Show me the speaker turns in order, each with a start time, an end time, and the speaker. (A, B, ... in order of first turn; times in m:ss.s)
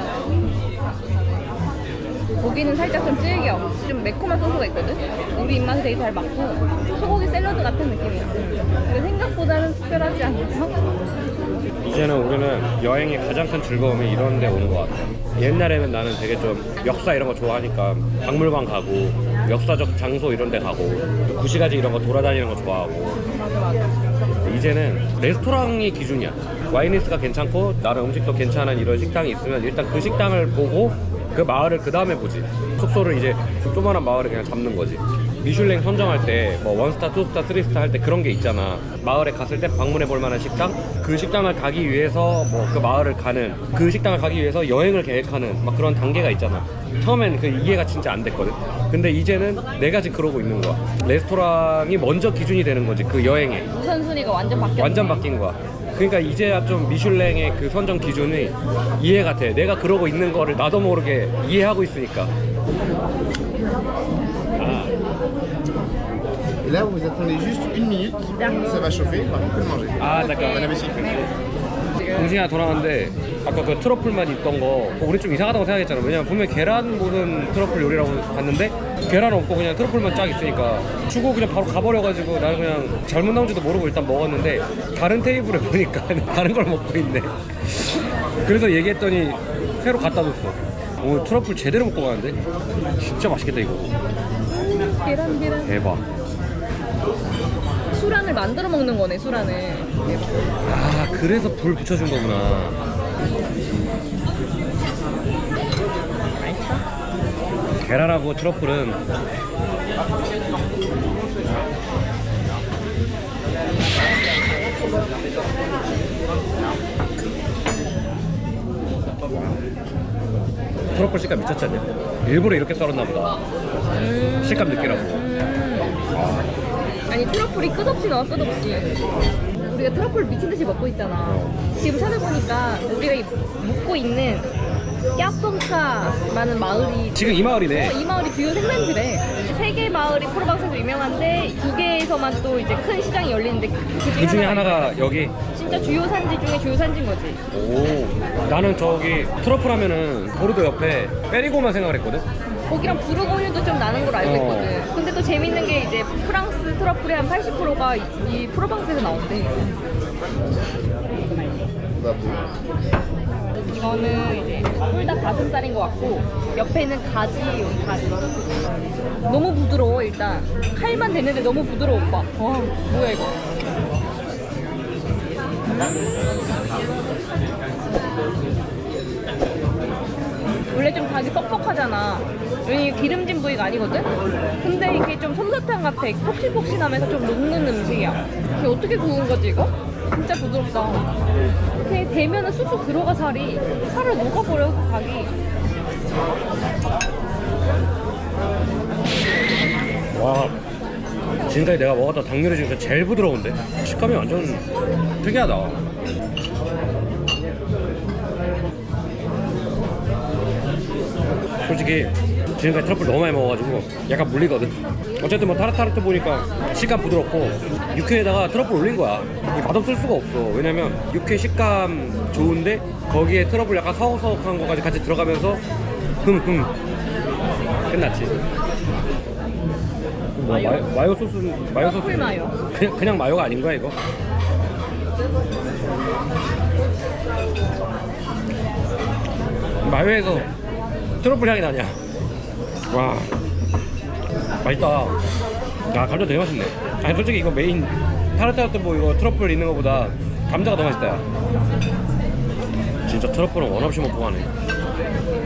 0:02.4-0:11.2 A
0:11.8-0:23.2 B
0:23.2-0:24.0 A
0:24.4-0:53.7 B
0:53.7-0:55.3 A
0:54.8-1:02.3 B
1:04.6-1:05.0 B
1:06.7-1:08.2 C
1:08.2-1:11.3 A
1:09.4-1:09.9 C
1:10.0-1:11.3 B
1:12.0-1:12.3 A
1:12.1-1:32.4 B
1:33.0-1:34.0 B
1:34.5-1:35.8 A
1:35.6-1:36.0 B
1:37.9-1:40.1 A
1:40.6-1:42.8 B
1:46.4-1:46.8 A
1:47.8-1:49.0 B
2:00.8-2:03.4 B
2:03.9-2:06.0 A
2:04.4-2:05.2 B
2:06.1-2:06.5 B
2:07.1-2:09.0 A
2:09.6-2:14.5 A
2:11.2-2:11.6 B
2:15.2-2:27.4 A
2:17.2-2:18.0 B
2:24.2-2:26.0 B
2:27.5-2:32.2 B
2:32.5-2:39.8 A
2:34.2-2:34.8 B
2:41.1-2:41.7 A
2:43.7-2:53.4 A
2:55.6-2:56.2 A
3:00.7-3:11.2 A
3:11.7-3:15.4 A
3:20.1-3:20.6 B
3:21.4-3:24.6 B
3:25.2-3:25.8 B
3:31.6-3:45.6 B
3:46.2-3:46.7 B
3:47.9-3:48.4 B
3:50.4-3:54.0 B
3:50.5-3:50.9 A
3:51.8-3:52.6 A
3:59.8-4:00.5 B
4:01.2-4:02.0 B
4:02.9-4:03.4 B
4:04.6-4:05.2 B
4:05.9-4:11.2 B
4:13.1-4:14.5 B